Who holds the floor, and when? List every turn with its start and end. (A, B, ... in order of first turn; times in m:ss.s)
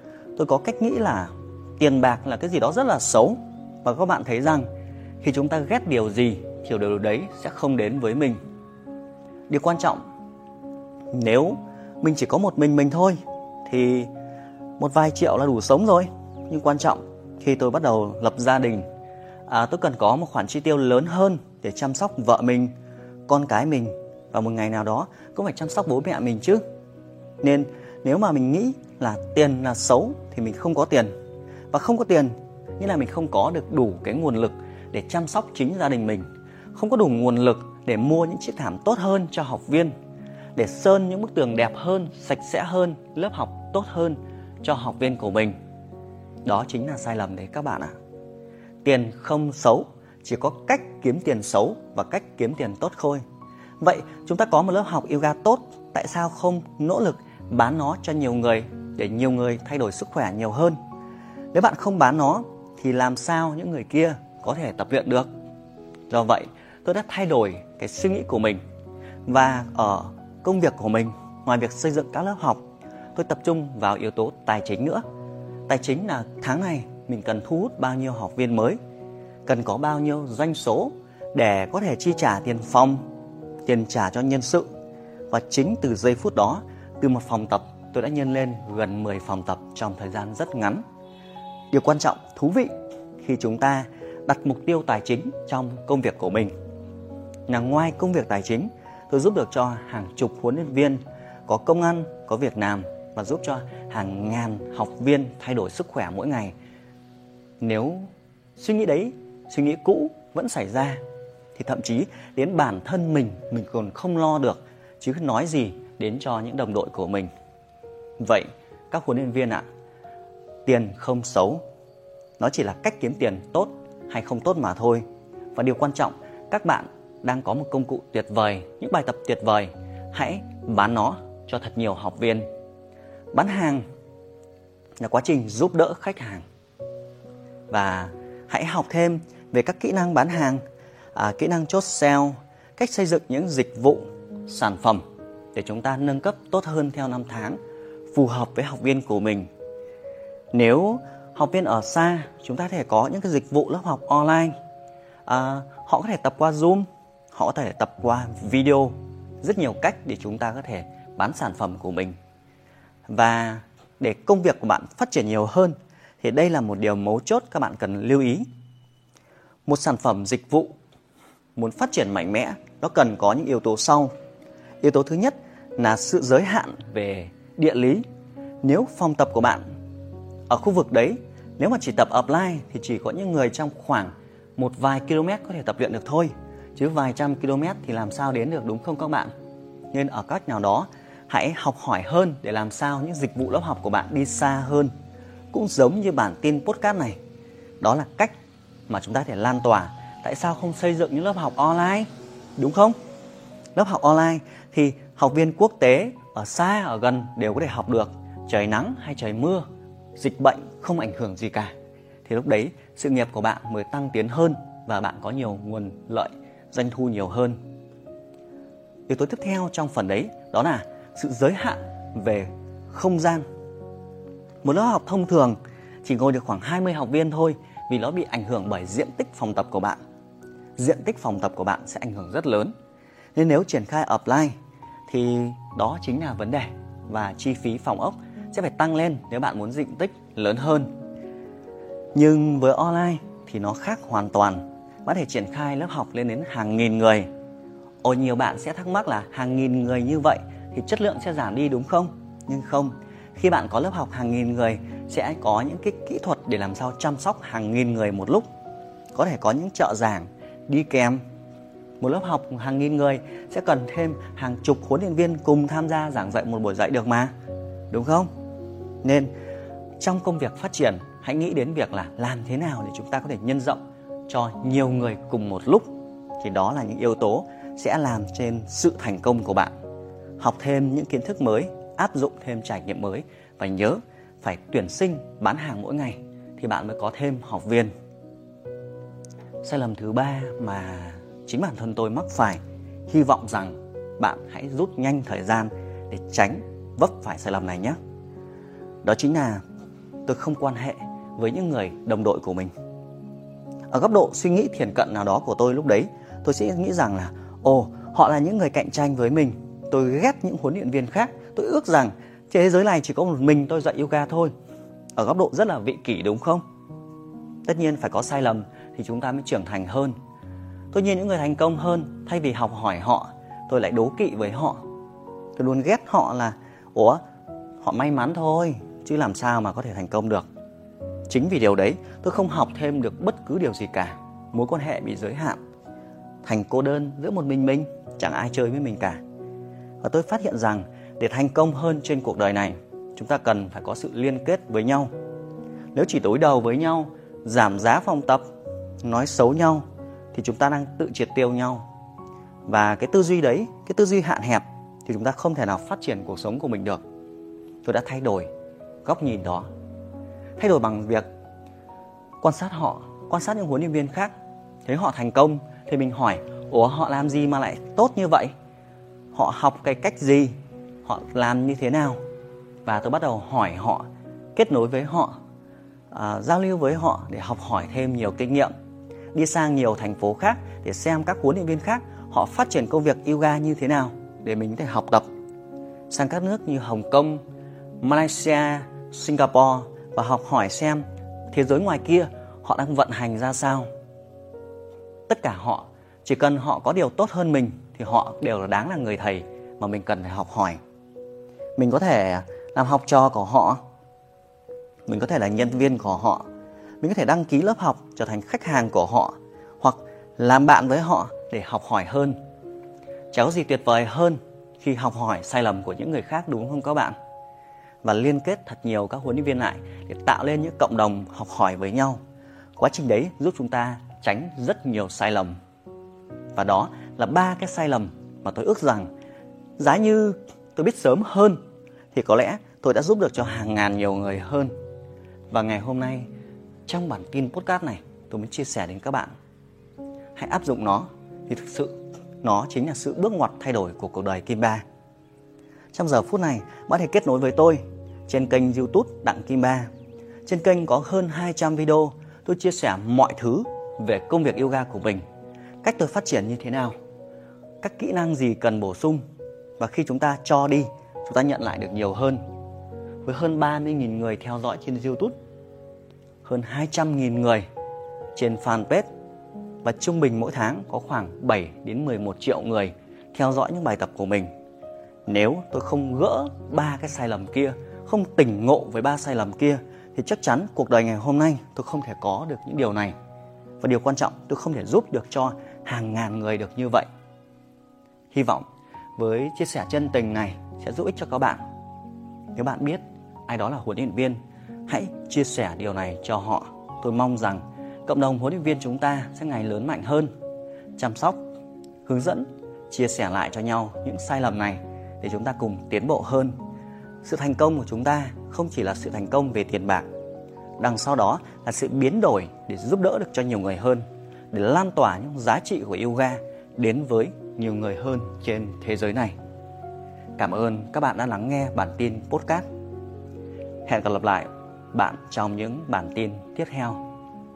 0:00.4-0:04.7 A
0:05.2-0:08.4 A
0:09.5-0:10.0 A
0:11.1-0:14.1 A
0:14.8-0:18.8 A
0:19.5-0:22.7 A
0:23.3-0:26.6 A
0:27.4-0:31.1 A
0:31.7-0:39.9 A
0:40.6-0:45.5 A
0:46.4-0:47.9 A
0:48.8-0:53.2 A
0:53.8-1:00.8 A
1:01.5-1:05.3 A
1:06.1-1:08.6 A
1:09.3-1:15.0 A
1:15.7-1:18.8 A
1:19.4-1:23.0 A
1:23.6-1:24.7 A
1:25.3-1:30.8 A
1:31.7-1:36.5 A
1:37.5-1:46.5 A
1:47.6-1:51.0 A
1:51.5-1:57.3 A
1:58.2-1:59.6 A
2:00.6-2:01.6 A
2:02.4-2:05.0 A
2:05.5-2:12.5 A
2:13.3-2:13.8 A
2:15.0-2:16.4 A
2:17.7-2:20.6 A
2:21.1-2:25.0 A
2:25.5-2:27.6 A
2:28.1-2:29.5 A
2:30.5-2:34.5 A
2:35.2-2:42.1 A
2:43.1-2:48.4 A
2:49.6-2:50.7 A
2:51.6-2:54.1 A
2:54.8-2:58.0 A
2:58.6-2:59.6 A
3:00.5-3:09.3 A
3:09.9-3:14.9 A
3:15.5-3:17.2 A
3:17.8-3:18.3 A
3:18.9-3:23.0 A
3:23.7-3:29.6 A
3:30.2-3:31.7 A
3:32.2-3:37.6 A
3:39.1-3:43.4 A
3:44.6-3:50.0 A
3:50.8-3:52.7 A
3:53.3-3:54.5 A
3:55.1-4:00.9 A
4:02.1-4:07.3 A
4:08.0-4:18.4 A
4:19.1-4:21.2 A
4:22.0-4:27.3 A
4:27.9-4:28.3 A
4:29.0-4:29.3 A
4:30.0-4:39.7 A
4:40.4-4:47.9 A
4:49.6-4:58.0 A
4:59.0-4:59.6 A
5:00.2-5:02.7 A
5:03.9-5:14.5 A
5:15.2-5:16.6 A
5:17.6-5:20.1 A
5:20.9-5:24.8 A
5:25.6-5:27.2 A
5:27.8-5:30.4 A
5:31.3-5:35.6 A
5:36.4-5:39.2 A
5:40.0-5:45.1 A
5:45.9-5:48.4 A
5:49.0-5:51.8 A
5:52.7-5:57.0 A
5:57.8-5:58.5 A
5:59.0-5:59.7 A
6:00.6-6:01.2 A
6:02.4-6:04.3 A
6:04.8-6:08.5 A
6:09.3-6:12.2 A
6:12.8-6:15.4 A
6:16.1-6:18.7 A
6:19.3-6:25.3 A
6:26.1-6:27.4 A
6:28.0-6:33.9 A
6:35.3-6:40.8 A
6:41.8-6:43.8 A
6:45.1-6:46.4 A
6:47.0-6:52.4 A
6:53.3-6:57.1 A
6:58.0-7:02.2 A
7:02.8-7:05.5 A
7:06.5-7:09.1 A
7:09.8-7:11.6 A
7:12.1-7:14.7 A
7:15.5-7:16.3 A
7:16.8-7:19.3 A
7:20.4-7:24.8 A
7:25.9-7:29.9 A
7:30.4-7:35.2 A
7:35.8-7:36.9 A
7:37.8-7:39.2 A
7:39.8-7:42.4 A
7:43.2-7:45.3 A
7:46.4-7:47.6 A
7:48.3-7:49.1 A
7:49.8-7:54.5 A
7:55.2-8:03.1 A
8:03.8-8:07.1 A
8:08.3-8:08.6 A
8:09.2-8:11.6 A
8:12.5-8:20.3 A
8:21.0-8:21.4 A
8:22.0-8:26.5 A
8:27.2-8:30.1 A
8:30.8-8:39.3 A
8:40.4-8:42.6 A
8:43.8-8:47.0 A